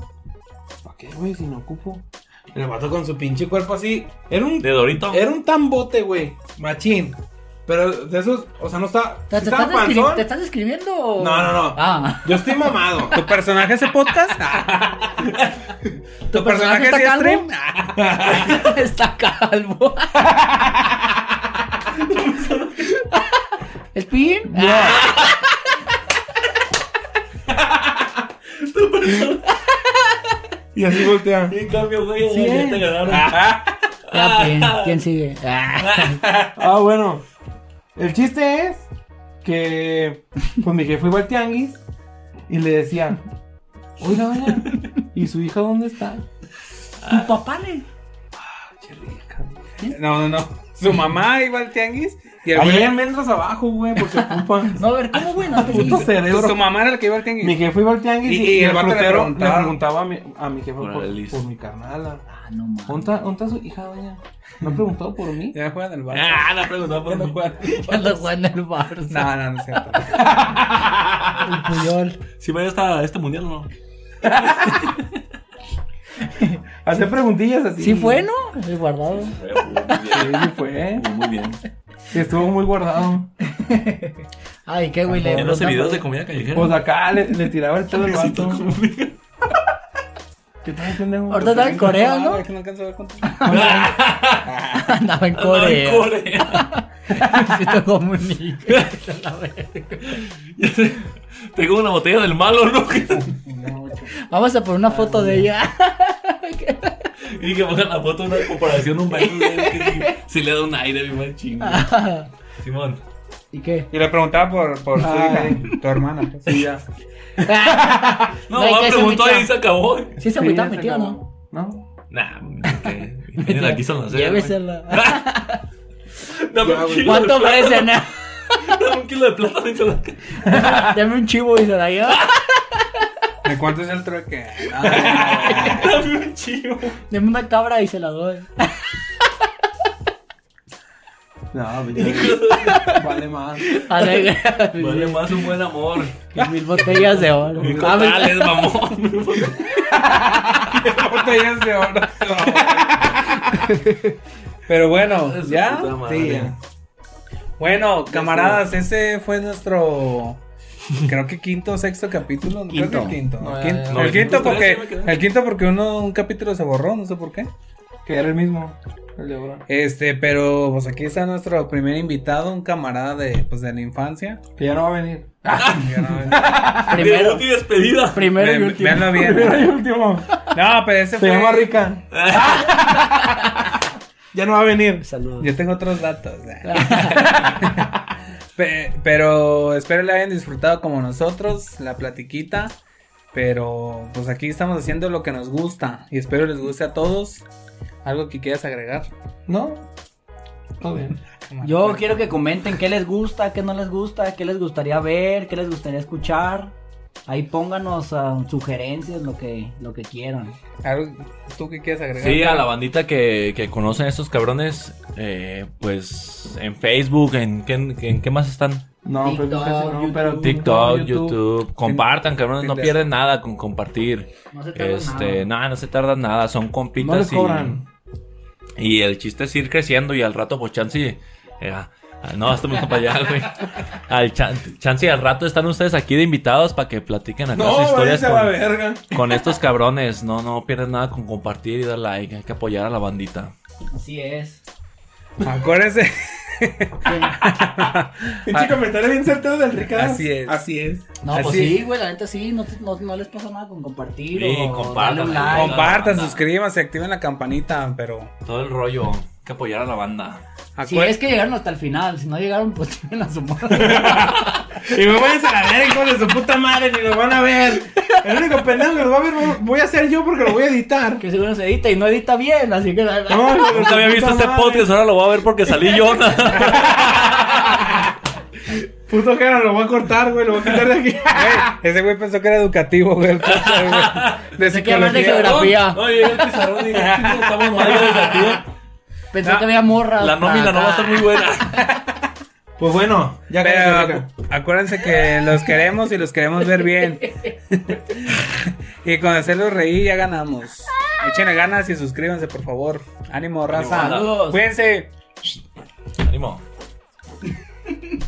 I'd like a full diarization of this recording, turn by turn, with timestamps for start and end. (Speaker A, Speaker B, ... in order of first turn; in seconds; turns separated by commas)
Speaker A: 0.8-10.3, Speaker B: 4.6-5.3, Speaker C: 9.3-12.7, Speaker A: 11.2-13.3, Speaker D: 13.1-15.3, Speaker C: 16.3-17.5, Speaker D: 16.3-18.6, Speaker A: 18.0-18.5, Speaker C: 18.2-20.3, Speaker A: 20.3-21.0, Speaker B: 22.1-22.9, Speaker C: 23.9-25.3, Speaker A: 24.5-25.1, Speaker B: 25.0-25.3, Speaker B: 28.5-29.5, Speaker A: 30.7-31.6, Speaker B: 31.5-33.6, Speaker A: 32.3-33.2, Speaker D: 33.0-33.8, Speaker B: 34.1-35.0, Speaker C: 34.1-36.2, Speaker B: 35.8-36.2, Speaker D: 36.2-36.6, Speaker A: 36.6-37.2, Speaker A: 38.0-38.9, Speaker A: 39.4-41.8, Speaker A: 42.5-43.2, Speaker A: 44.0-46.2, Speaker B: 47.0-47.3, Speaker C: 47.1-47.9, Speaker A: 48.4-49.5, Speaker D: 49.9-53.0, Speaker A: 52.5-54.8, Speaker C: 54.1-56.1, Speaker A: 55.5-56.8, Speaker D: 55.7-57.6, Speaker A: 57.4-62.2, Speaker D: 58.2-59.8, Speaker B: 60.8-61.4, Speaker C: 62.3-63.2, Speaker A: 62.9-65.6, Speaker D: 65.5-68.3, Speaker B: 66.1-67.4, Speaker C: 67.6-70.1, Speaker D: 69.1-70.4, Speaker C: 71.4-72.2, Speaker B: 72.4-73.7, Speaker A: 74.2-74.8, Speaker B: 74.6-75.1, Speaker C: 76.3-76.6, Speaker A: 76.8-78.3, Speaker C: 77.8-80.0, Speaker B: 79.2-81.6, Speaker A: 80.1-81.0, Speaker A: 82.1-83.3, Speaker C: 83.4-86.0, Speaker A: 85.1-85.6, Speaker B: 85.3-86.8, Speaker A: 86.5-88.7, Speaker B: 88.0-89.2, Speaker A: 90.6-92.0, Speaker C: 91.3-92.4, Speaker D: 91.3-93.5, Speaker C: 93.2-93.8, Speaker A: 93.4-94.0, Speaker B: 93.5-94.5, Speaker D: 94.4-94.9, Speaker C: 94.7-100.2, Speaker B: 95.3-96.7, Speaker B: 100.1-103.3, Speaker D: 103.5-104.1, Speaker C: 104.2-107.1, Speaker A: 104.9-105.5, Speaker B: 107.2-112.0, Speaker C: 109.1-110.2, Speaker C: 111.6-112.3, Speaker B: 112.6-113.0, Speaker C: 113.5-113.9, Speaker D: 113.9-116.9, Speaker A: 115.0-115.7, Speaker C: 117.4-119.5, Speaker B: 118.5-120.2, Speaker C: 120.2-121.2, Speaker A: 120.2-121.9, Speaker B: 122.1-125.3, Speaker C: 122.6-125.6, Speaker B: 126.2-130.4, Speaker A: 126.6-127.4, Speaker C: 127.0-128.7, Speaker C: 130.4-132.4, Speaker D: 133.4-136.1, Speaker B: 134.8-137.0, Speaker C: 135.1-135.9, Speaker C: 137.1-138.8, Speaker A: 141.5-143.8, Speaker B: 141.9-143.0, Speaker C: 142.4-143.0, Speaker C: 143.7-145.4, Speaker B: 144.8-146.2, Speaker C: 146.3-148.8, Speaker B: 146.8-149.7, Speaker A: 147.5-148.1, Speaker D: 150.6-153.7, Speaker A: 152.3-153.2, Speaker D: 154.7-156.5, Speaker B: 155.1-156.5, Speaker A: 156.2-156.5, Speaker D: 157.6-160.4, Speaker A: 158.1-158.7, Speaker D: 161.1-167.5, Speaker C: 162.7-163.2, Speaker A: 163.4-164.7, Speaker B: 163.9-165.2, Speaker A: 168.1-169.6, Speaker D: 169.7-174.4, Speaker A: 174.6-177.1, Speaker D: 175.6-176.8, Speaker B: 176.8-178.6, Speaker C: 176.8-179.4, Speaker D: 178.3-179.7, Speaker A: 179.0-180.3, Speaker D: 180.5-181.8, Speaker A: 181.1-183.4, Speaker B: 182.1-182.7, Speaker C: 182.7-183.5, Speaker A: 184.3-185.1, Speaker C: 185.0-185.5, Speaker D: 185.4-187.9, Speaker C: 186.6-187.5, Speaker D: 188.6-192.8, Speaker D: 193.3-197.4, Speaker D: 198.0-199.1, Speaker A: 199.5-199.9, Speaker A: 200.8-201.2, Speaker D: 201.5-202.3, Speaker C: 201.6-206.7, Speaker C: 207.3-210.6, Speaker D: 210.8-212.7, Speaker B: 212.2-218.8, Speaker A: 219.1-221.4, Speaker C: 219.2-220.6, Speaker B: 220.4-227.8, Speaker D: 221.8-222.9, Speaker C: 224.5-225.5, Speaker A: 227.0-227.9, Speaker B: 228.8-243.5, Speaker A: 237.5-239.2, Speaker C: 243.9-244.6, Speaker D: 245.4-248.8, Speaker C: 247.1-247.4, Speaker A: 248.4-251.0, Speaker D: 249.9-250.6, Speaker C: 251.2-255.9, Speaker D: 251.3-251.8, Speaker B: 254.3-256.4, Speaker D: 255.4-258.3, Speaker B: 258.4-260.4, Speaker D: 260.8-261.1, Speaker C: 260.9-264.3, Speaker A: 263.7-271.2, Speaker C: 271.2-273.8, Speaker A: 273.3-274.9, Speaker B: 273.7-277.9, Speaker D: 276.8-277.1, Speaker A: 279.1-281.8, Speaker D: 281.3-285.8, Speaker B: 283.4-284.5, Speaker C: 284.6-286.1, Speaker B: 285.1-288.6, Speaker D: 286.4-288.6, Speaker C: 289.3-291.5, Speaker B: 290.1-292.0, Speaker A: 292.8-294.3, Speaker D: 293.6-305.6, Speaker B: 303.7-304.6, Speaker C: 304.0-304.6, Speaker B: 306.2-306.6